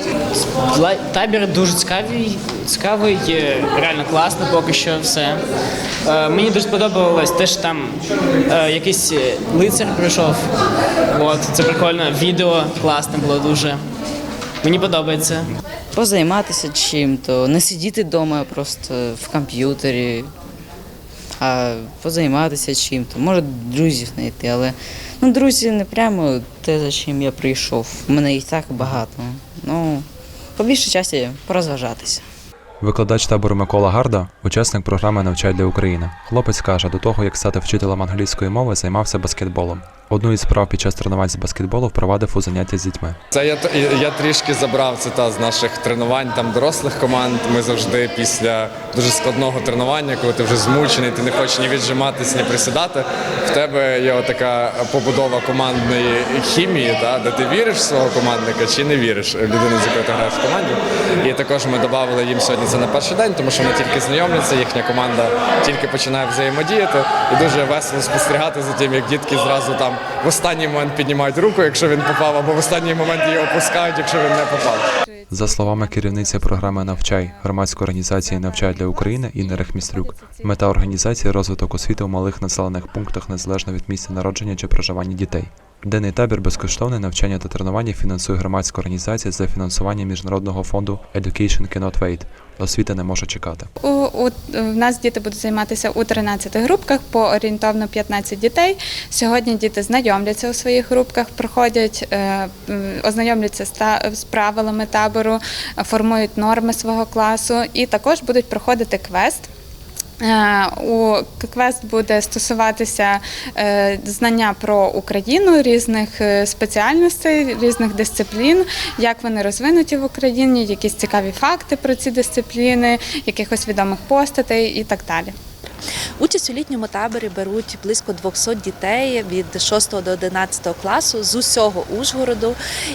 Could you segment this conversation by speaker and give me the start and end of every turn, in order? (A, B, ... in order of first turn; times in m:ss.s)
0:00.4-0:05.4 A
0:06.0-0:10.5 A
0:11.1-0:13.8 A
0:14.6-0:15.5 A
0:16.0-0:20.3 B
0:21.4-0:32.2 B
0:32.8-0:43.2 C
0:43.3-1:14.9 D
1:15.1-1:17.5 E
1:15.3-1:33.7 C
1:18.2-1:20.9 E
1:33.8-1:49.5 E
1:50.2-2:05.3 E
2:06.2-2:12.6 F